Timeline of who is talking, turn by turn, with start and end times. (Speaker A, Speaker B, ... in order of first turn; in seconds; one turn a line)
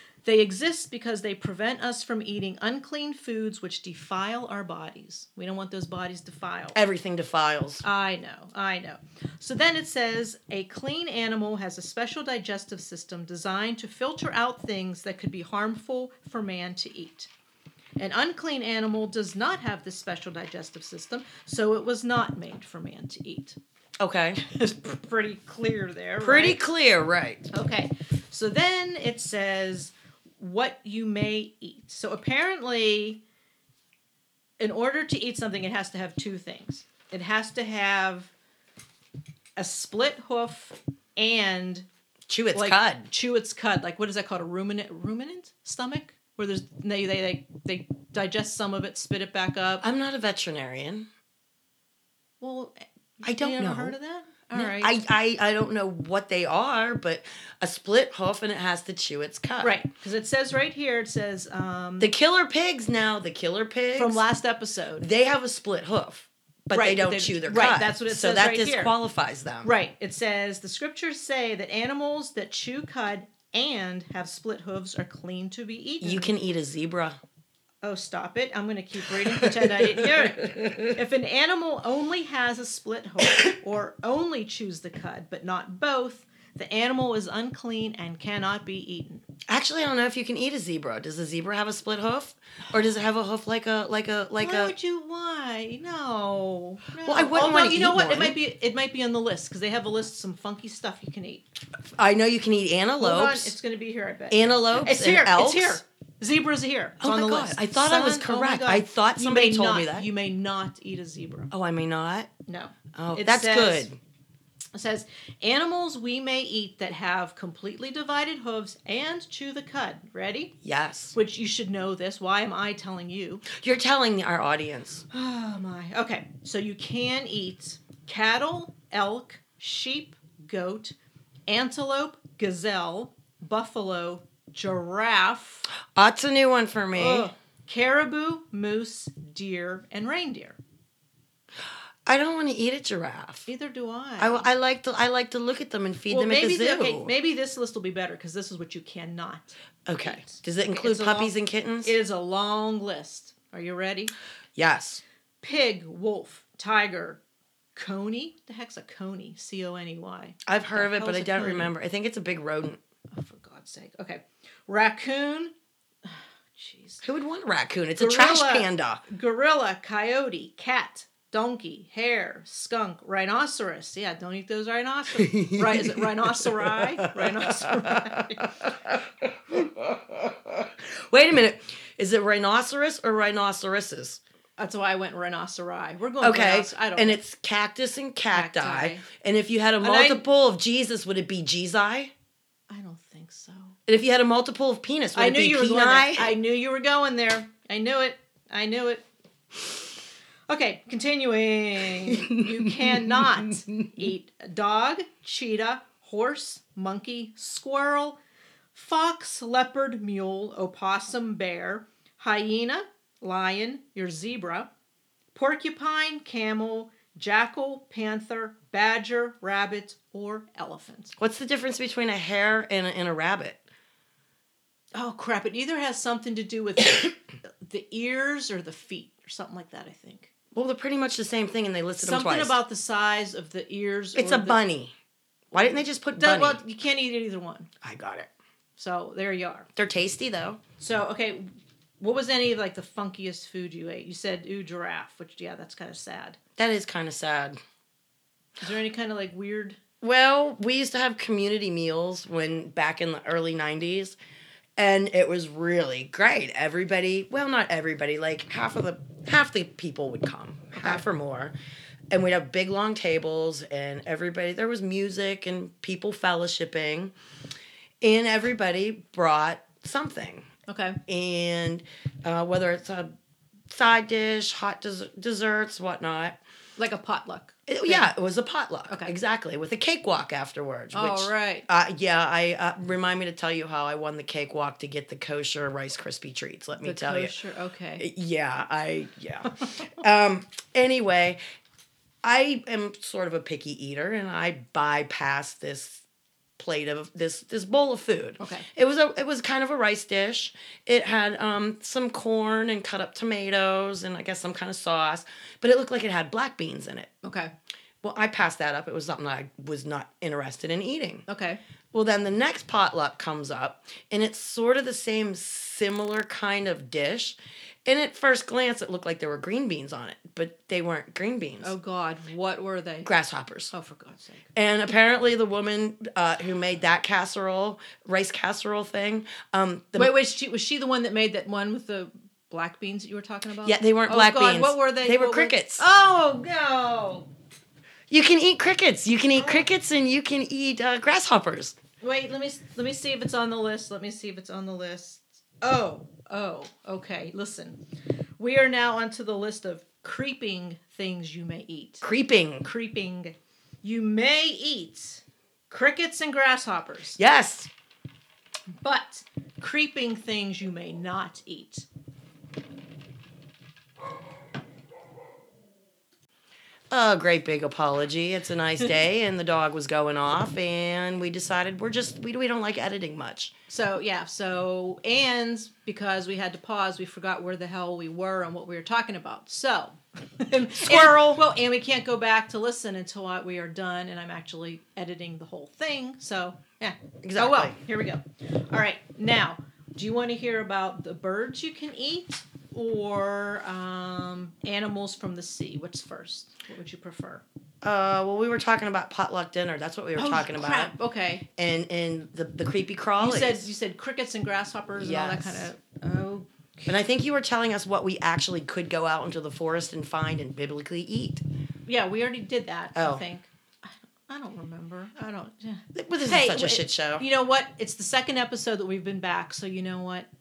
Speaker A: 0.2-6.8
Speaker B: 6.7-7.8
Speaker A: 7.8-17.3
Speaker A: 18.0-23.6
Speaker B: 24.0-24.4
Speaker A: 24.4-26.6
Speaker B: 26.2-27.5
Speaker A: 27.5-33.2
Speaker A: 34.6-38.3
Speaker A: 39.5-41.9
Speaker B: 42.3-43.1
Speaker A: 42.5-49.8
Speaker B: 49.8-51.1
Speaker A: 52.4-54.9
Speaker B: 53.2-54.0
Speaker B: 54.5-59.8
Speaker A: 59.6-62.1
Speaker B: 62.0-64.2
Speaker A: 63.9-65.0
Speaker B: 65.0-69.7
Speaker A: 66.7-68.9
Speaker A: 69.6-76.3
Speaker B: 76.0-77.2
Speaker A: 77.8-89.2
Speaker B: 79.3-81.0
Speaker B: 89.5-94.7
Speaker A: 94.4-101.4
Speaker B: 97.0-98.3
Speaker B: 102.0-103.5
Speaker A: 103.0-111.5
Speaker B: 104.3-105.8
Speaker B: 107.0-110.1
Speaker B: 111.5-112.3
Speaker A: 112.5-113.9
Speaker B: 112.9-114.0
Speaker A: 114.7-120.5
Speaker B: 120.6-121.1
Speaker A: 121.1-123.5
Speaker B: 123.5-125.0
Speaker A: 125.1-130.9
Speaker A: 131.5-135.6
Speaker B: 135.9-137.3
Speaker A: 136.9-140.6
Speaker B: 142.1-143.5
Speaker A: 143.5-144.5
Speaker B: 144.2-147.1
Speaker A: 146.1-154.1
Speaker B: 149.9-151.9
Speaker B: 154.6-155.0
Speaker A: 155.4-157.2
Speaker A: 157.7-161.7
Speaker B: 160.4-162.8
Speaker A: 163.1-165.5
Speaker A: 166.0-167.0
Speaker B: 167.0-169.0
Speaker A: 168.0-178.5
Speaker B: 175.2-184.2
Speaker A: 184.6-187.2
Speaker B: 186.2-192.1
Speaker A: 188.3-189.0
Speaker A: 189.8-190.2
Speaker A: 192.7-193.8
Speaker B: 193.9-196.3
Speaker A: 195.1-199.1
Speaker A: 200.5-208.2
Speaker B: 202.1-204.1
Speaker A: 208.7-214.7
Speaker A: 215.3-221.1
Speaker B: 221.2-223.6
Speaker A: 224.9-230.3
Speaker B: 230.5-232.6
Speaker A: 232.0-234.6
Speaker B: 234.2-234.9
Speaker B: 235.5-236.6
Speaker A: 236.2-237.7
Speaker B: 237.8-238.3
Speaker A: 238.8-239.7
Speaker B: 239.8-240.6
Speaker A: 240.8-241.4
Speaker A: 242.0-246.4
Speaker B: 246.6-247.6
Speaker A: 248.6-249.8
Speaker B: 250.0-254.2
Speaker B: 254.8-261.5
Speaker A: 260.7-261.0
Speaker B: 262.1-267.1
Speaker B: 268.0-270.5
Speaker A: 270.7-271.0
Speaker B: 271.1-273.1
Speaker B: 273.7-276.4
Speaker A: 276.8-278.1
Speaker B: 277.7-287.3
Speaker A: 280.9-281.6
Speaker A: 286.8-288.1
Speaker B: 288.0-291.4
Speaker B: 292.2-296.0
Speaker B: 296.6-307.1
Speaker A: 298.4-298.7
Speaker A: 307.2-307.5
Speaker B: 308.0-311.2
Speaker A: 311.3-311.6
Speaker B: 311.9-321.7
Speaker A: 321.6-323.1
Speaker B: 323.0-323.7
Speaker A: 323.7-324.4
Speaker B: 324.5-330.1
Speaker A: 329.9-337.3
Speaker B: 333.6-335.9
Speaker B: 338.1-341.8
Speaker A: 339.3-339.6
Speaker A: 342.0-347.8
Speaker A: 348.4-352.0
Speaker B: 352.0-352.7
Speaker A: 352.6-357.2
Speaker B: 357.2-357.7
Speaker A: 358.8-361.9
Speaker B: 366.9-373.5
Speaker A: 373.7-397.4
Speaker B: 380.8-381.4
Speaker B: 387.2-387.8
Speaker B: 397.8-400.9
Speaker A: 400.1-401.4
Speaker B: 401.6-403.7
Speaker A: 403.2-406.9
Speaker B: 404.9-405.7
Speaker B: 406.9-411.4
Speaker A: 411.9-420.3
Speaker B: 412.9-413.2
Speaker B: 415.9-417.2